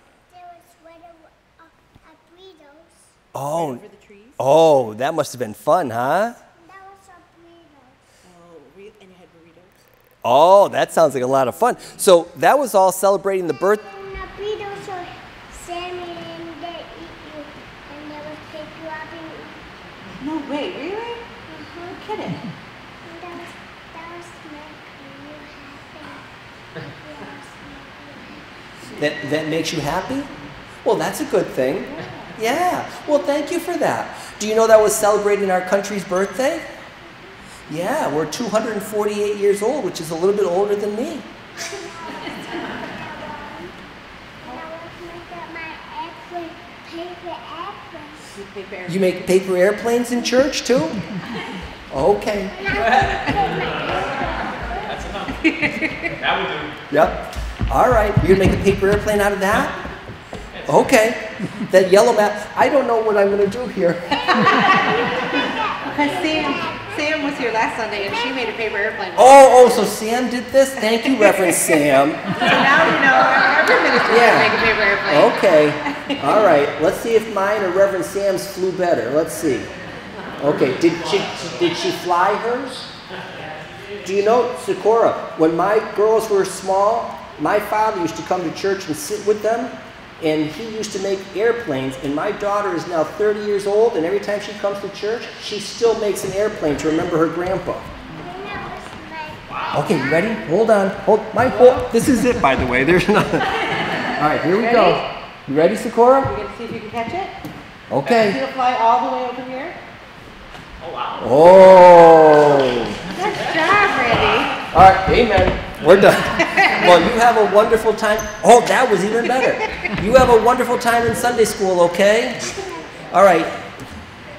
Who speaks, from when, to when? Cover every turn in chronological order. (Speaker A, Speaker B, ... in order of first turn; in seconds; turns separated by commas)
Speaker A: 0.3-3.1, Speaker B: 3.3-3.8, Speaker C: 3.5-4.4, Speaker B: 4.4-6.4, Speaker A: 6.6-8.0, Speaker C: 8.2-9.8, Speaker B: 10.2-13.8, Speaker A: 13.7-19.6, Speaker C: 20.2-22.4, Speaker A: 23.0-28.4, Speaker B: 28.9-30.3, Speaker B: 30.8-36.7, Speaker C: 31.9-32.3, Speaker B: 37.7-41.3, Speaker A: 41.5-43.7, Speaker A: 44.4-48.2, Speaker C: 48.3-49.2, Speaker B: 48.9-51.0, Speaker B: 51.9-52.6, Speaker A: 52.5-55.1, Speaker C: 53.0-53.3, Speaker C: 55.2-56.1, Speaker B: 56.9-59.8, Speaker B: 60.6-64.6, Speaker A: 64.4-69.6, Speaker C: 65.8-69.4, Speaker B: 69.1-72.5, Speaker C: 71.2-71.8, Speaker C: 72.3-75.5, Speaker B: 74.0-79.7, Speaker B: 80.4-82.9, Speaker B: 84.0-97.9, Speaker A: 98.1-99.4, Speaker B: 99.7-106.3, Speaker C: 104.5-105.0, Speaker C: 106.2-107.3, Speaker B: 107.9-108.4, Speaker C: 108.2-109.8, Speaker B: 111.2-113.0, Speaker C: 113.1-114.6, Speaker B: 114.7-122.5, Speaker C: 116.5-116.8, Speaker A: 122.5-123.1, Speaker B: 123.1-123.6